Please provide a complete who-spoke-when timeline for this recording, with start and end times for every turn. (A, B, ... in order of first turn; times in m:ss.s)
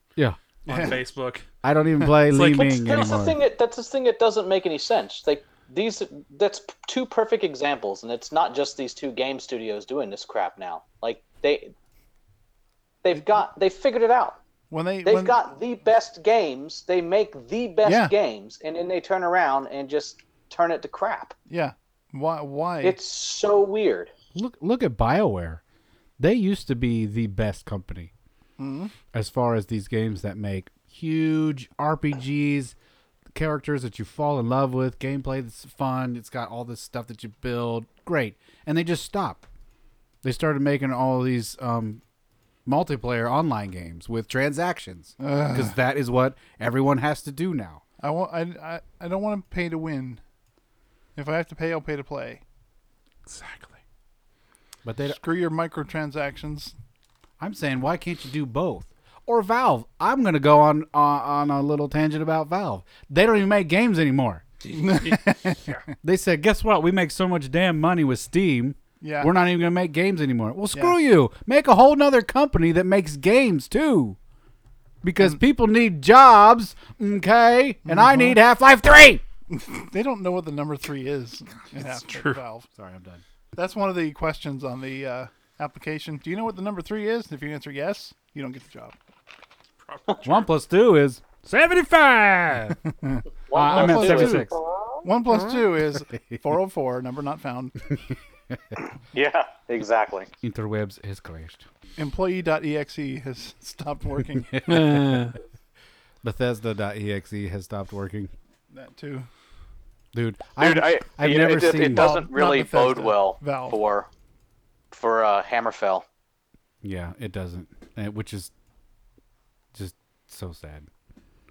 0:00.7-0:01.4 A
0:00.7-0:01.0 B
0:01.6-0:03.4 C
0:02.3-0:02.8 A
0:02.4-0:11.7 D
0:13.0-0:14.4 D
0:14.7-0:15.4 B
0:15.0-0:21.3 D
0:17.8-0:18.1 B
0:21.5-0:23.0 B
0:22.8-0:24.1 D
0:24.3-0:25.6 C
0:26.2-0:28.1 C
0:28.6-0:28.9 B
0:29.1-0:32.8 C
0:33.3-0:39.4 C
0:40.2-0:42.0 C
0:42.6-0:47.8 C
0:45.2-0:45.7 B
0:48.0-0:50.2 B
0:51.2-0:52.4 B
0:53.2-0:53.8 A
0:54.8-0:55.2 C
0:55.1-0:56.7 B
0:57.4-1:04.4 C
1:04.7-1:05.8 B
1:04.8-1:05.8 A
1:06.0-1:14.2 C
1:09.0-1:09.3 B
1:15.0-1:19.2 C
1:17.8-1:18.4 B
1:19.5-1:22.7 B
1:21.8-1:22.4 A
1:22.7-1:23.2 C
1:23.5-1:29.0 B
1:29.8-1:30.5 A
1:30.2-1:32.8 C
1:33.0-1:34.5 B
1:33.5-1:35.1 D
1:33.5-1:34.6 C
1:35.0-1:37.8 B
1:38.5-1:38.8 C
1:39.1-1:40.3 D
1:40.4-1:41.7 C
1:42.0-1:44.6 B
1:44.5-1:45.3 C
1:44.6-1:45.4 A
1:46.2-1:48.3 C
1:48.7-1:49.3 B
1:50.1-1:52.2 C
1:50.6-1:54.1 D
1:51.8-1:53.8 B
1:54.9-1:56.0 D
1:56.8-1:58.5 C
1:59.7-2:00.9 C